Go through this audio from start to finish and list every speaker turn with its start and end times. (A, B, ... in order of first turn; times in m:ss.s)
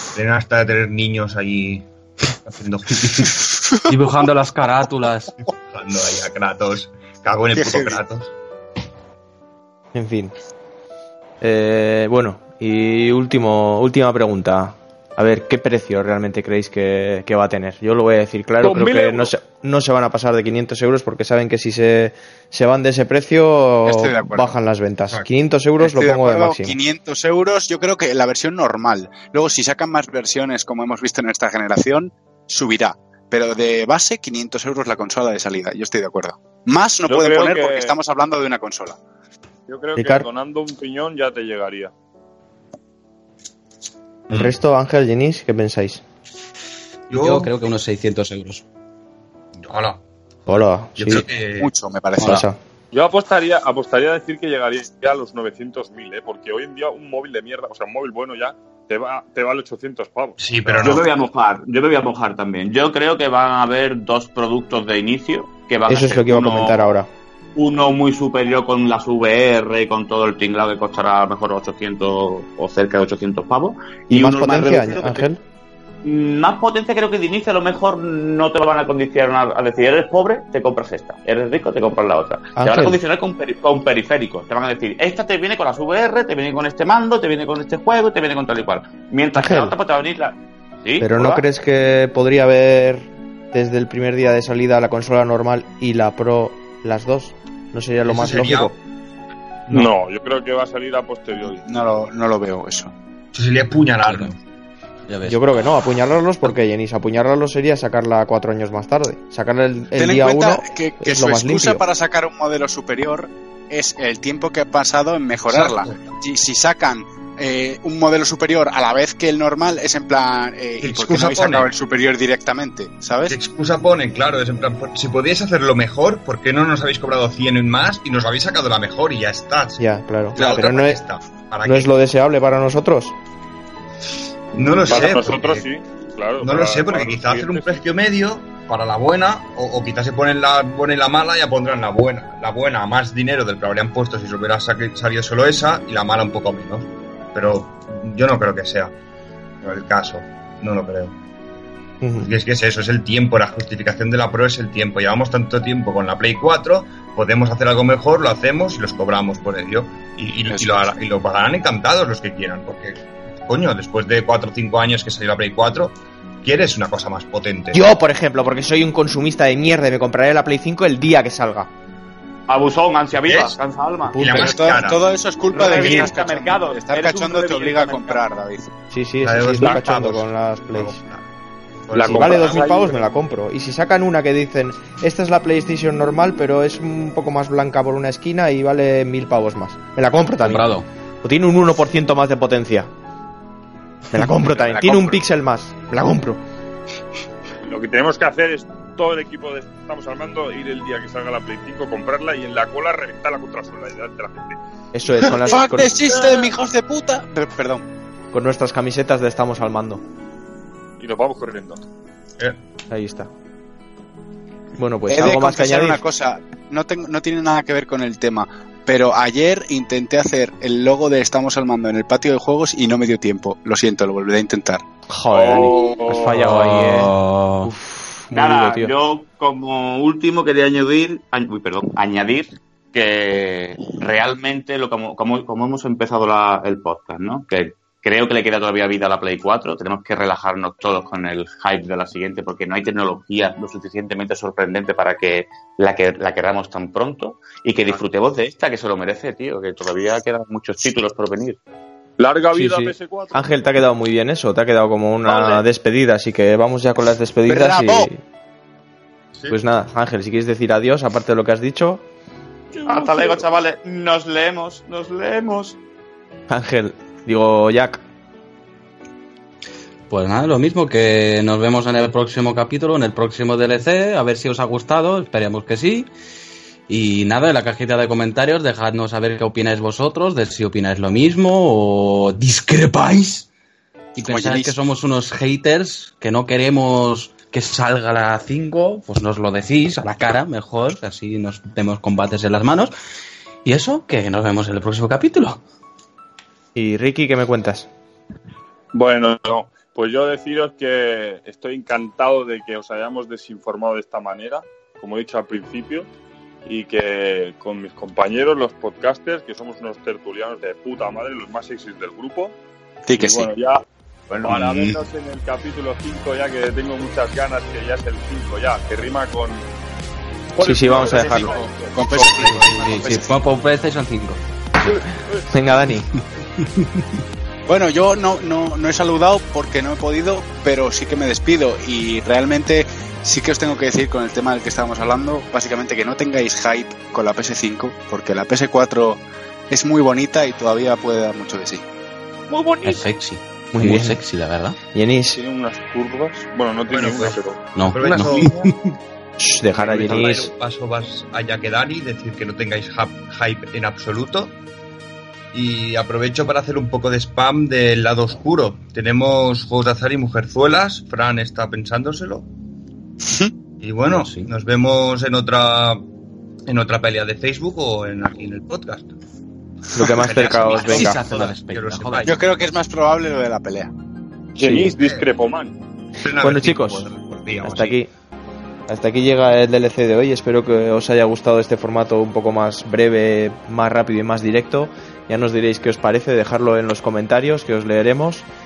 0:00.1-0:03.3 A
0:03.8-0:05.4 B
0:05.7-0:08.3 A
0:07.5-0:08.0 C
0:09.9-0:10.3 D
0:11.4-0:26.8 D
0:18.6-0:19.3 E
0:23.8-0:24.5 C
0:25.8-0:39.0 C
0:37.1-0:38.0 E
0:39.7-0:41.9 E
0:40.0-0:40.3 D
0:44.3-0:46.0 D
0:47.1-0:47.5 A
0:47.1-0:48.6 B
0:49.6-0:50.0 A
0:50.5-0:51.2 D
0:51.0-0:51.7 A
0:51.6-0:52.4 C
0:52.2-0:52.6 D
0:52.9-1:01.0 E
1:00.4-1:01.1 A
1:00.8-1:06.9 F
1:05.9-1:07.1 D
1:07.6-1:15.2 F
1:14.1-1:15.4 D
1:16.0-1:31.4 F
1:22.6-1:23.0 D
1:29.4-1:29.7 D
1:31.0-1:38.7 D
1:38.0-1:38.8 A
1:39.7-1:41.6 E
1:41.6-1:42.9 C
1:43.3-1:44.4 A
1:44.0-1:44.3 B
1:45.1-1:45.5 B
1:45.2-1:51.8 D
1:50.0-2:03.4 C
1:55.5-1:56.1 A
2:00.8-2:01.7 A
2:03.3-2:09.8 A
2:09.8-2:11.0 D
2:10.3-2:11.9 A
2:11.6-2:13.1 D
2:14.5-2:15.6 A
2:14.8-2:17.8 E
2:16.4-2:28.9 A
2:29.6-2:31.1 A
2:32.0-2:32.3 D
2:32.2-2:47.8 A
2:40.5-2:40.9 C
2:47.7-2:51.7 D
2:52.5-2:54.3 F
2:53.2-2:53.6 A
2:54.1-2:54.6 D
2:54.2-2:55.0 A
2:54.2-2:58.7 C
2:55.5-2:58.2 F
2:55.8-2:56.1 D
2:58.9-3:01.0 D
2:59.2-3:01.2 A
3:01.9-3:02.6 A
3:01.9-3:03.0 E
3:02.0-3:10.6 D
3:10.4-3:10.8 B
3:11.2-3:12.9 D
3:14.1-3:16.4 D
3:14.6-3:15.2 C
3:17.6-3:24.6 E
3:24.9-3:26.0 D
3:25.3-3:27.8 C
3:26.2-3:26.5 E
3:28.3-3:30.0 D
3:31.0-3:31.8 E
3:32.9-3:33.3 D
3:34.8-3:36.0 D
3:35.1-3:44.8 C
3:45.1-3:48.9 D
3:45.3-3:46.4 E
3:46.3-3:47.7 B
3:48.3-4:11.6 F
4:12.2-4:13.4 E
4:12.5-4:18.2 D
4:15.2-4:15.6 E
4:17.4-4:18.1 C
4:19.3-4:19.6 A
4:19.5-4:22.0 D
4:22.8-4:25.8 F
4:26.5-4:28.0 D
4:30.1-4:36.1 B
4:36.9-4:43.5 B
4:44.1-4:52.9 B
4:44.3-4:44.8 C
4:53.6-4:55.6 B
4:56.7-4:57.9 D
4:58.9-5:06.1 E
5:06.6-5:12.5 E
5:13.1-5:13.5 C
5:13.1-5:19.6 E
5:14.4-5:15.0 B
5:20.5-5:22.3 E
5:20.6-5:21.6 D
5:21.0-5:23.3 C
5:22.3-5:24.4 B
5:25.4-5:26.1 D
5:27.7-5:41.8 C
5:42.5-5:43.0 E
5:42.8-5:44.8 B
5:43.7-5:44.2 D
5:44.9-5:45.4 D
5:45.3-5:47.7 E
5:46.9-5:48.7 A
5:47.8-5:48.9 B
5:49.4-5:50.5 D
5:49.8-5:54.5 A
5:55.5-6:02.5 A
6:03.8-6:06.0 A
6:04.1-6:04.5 B
6:06.6-6:09.2 A
6:09.9-6:11.2 D
6:10.1-6:12.5 A
6:10.5-6:12.4 B
6:12.2-6:13.9 C
6:14.5-6:15.8 E
6:14.6-6:15.0 D
6:14.7-6:15.3 A
6:16.2-6:18.0 A
6:16.3-6:17.1 D
6:17.6-6:18.1 D
6:18.9-6:28.4 D